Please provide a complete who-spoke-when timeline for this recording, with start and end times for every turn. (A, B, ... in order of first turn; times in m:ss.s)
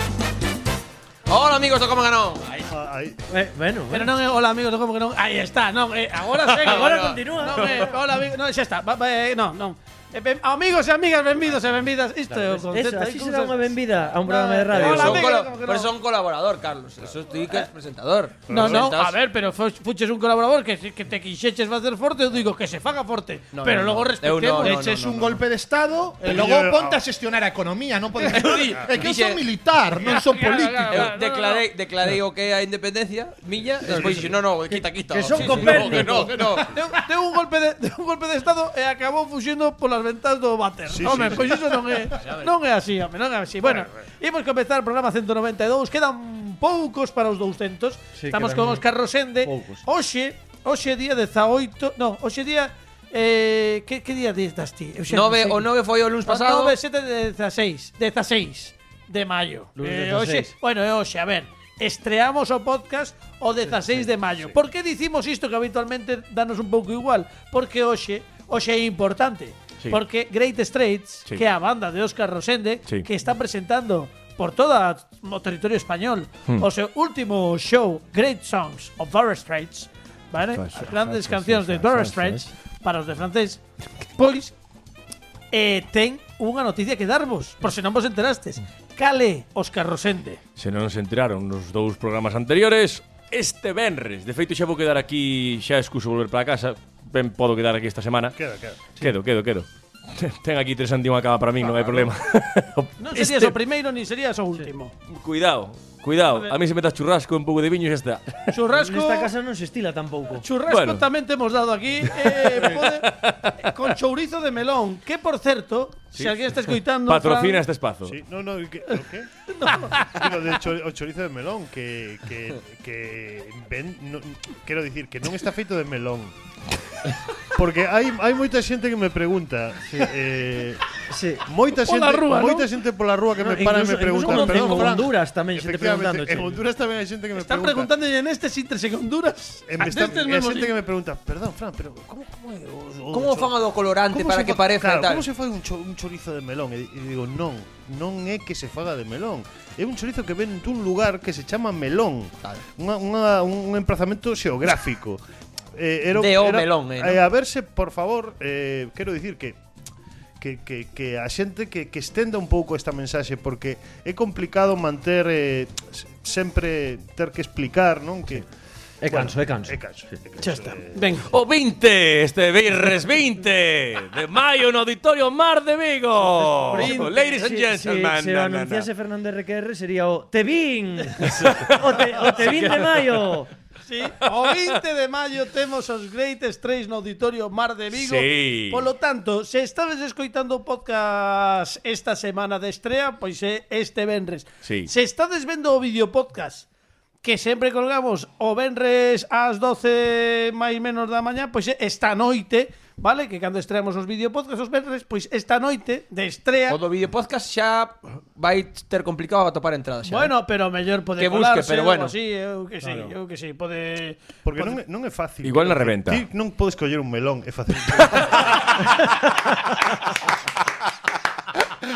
0:01.3-0:02.7 A
0:02.7-0:03.2 B
0:03.3-0:04.1 C
0:03.9-0:15.9 D
0:06.6-0:07.2 A
0:06.6-0:07.9 C
0:12.3-0:15.4 C
0:14.7-0:19.2 A
0:18.5-0:18.9 B
0:18.5-0:24.8 D
0:23.5-0:25.3 A
0:24.6-0:31.1 E
0:26.2-0:27.0 B
0:28.3-0:29.4 A
0:30.0-0:31.6 D
0:30.9-0:36.8 A
0:33.9-0:34.3 B
0:34.7-0:36.4 C
0:35.2-0:36.5 E
0:36.6-0:55.7 D
0:40.9-0:41.7 B
0:42.1-0:42.5 A
0:48.2-0:48.8 C
0:49.4-0:49.8 C
0:55.1-0:56.7 A
0:56.2-1:23.6 D
0:59.8-1:00.5 C
1:20.5-1:22.4 F
1:24.1-1:24.5 D
1:25.5-1:30.4 D
1:30.6-1:38.4 F
1:38.4-1:38.8 B
1:39.0-1:43.5 F
1:43.0-1:44.9 D
1:45.1-1:48.5 F
1:48.5-1:49.3 D
1:48.7-1:50.4 C
1:50.4-1:57.6 D
1:50.7-1:51.0 F
1:52.2-1:53.6 F
1:56.2-1:58.2 F
1:58.1-1:59.3 B
1:59.5-2:00.2 D
1:59.9-2:06.3 B
2:07.5-2:10.8 B
2:11.1-2:11.5 C
2:11.4-2:17.9 B
2:11.7-2:12.7 D
2:13.4-2:16.6 C
2:17.3-2:20.7 D
2:19.7-2:23.5 B
2:23.1-2:25.2 A
2:24.1-2:35.2 B
2:35.7-2:39.6 B
2:36.1-2:37.2 A
2:40.4-2:48.5 B
2:49.0-2:49.8 C
2:49.1-2:51.2 B
2:50.4-2:51.3 D
2:51.3-2:58.9 F
2:56.7-3:03.5 C
2:56.7-2:57.4 D
3:01.2-3:03.3 F
3:03.8-3:16.6 D
3:04.2-3:04.6 F
3:07.9-3:08.9 F
3:14.6-3:14.9 F
3:17.2-3:26.8 D
3:26.7-3:30.3 A
3:30.0-3:34.7 D
3:31.2-3:32.1 A
3:34.4-3:38.7 B
3:35.4-3:36.2 F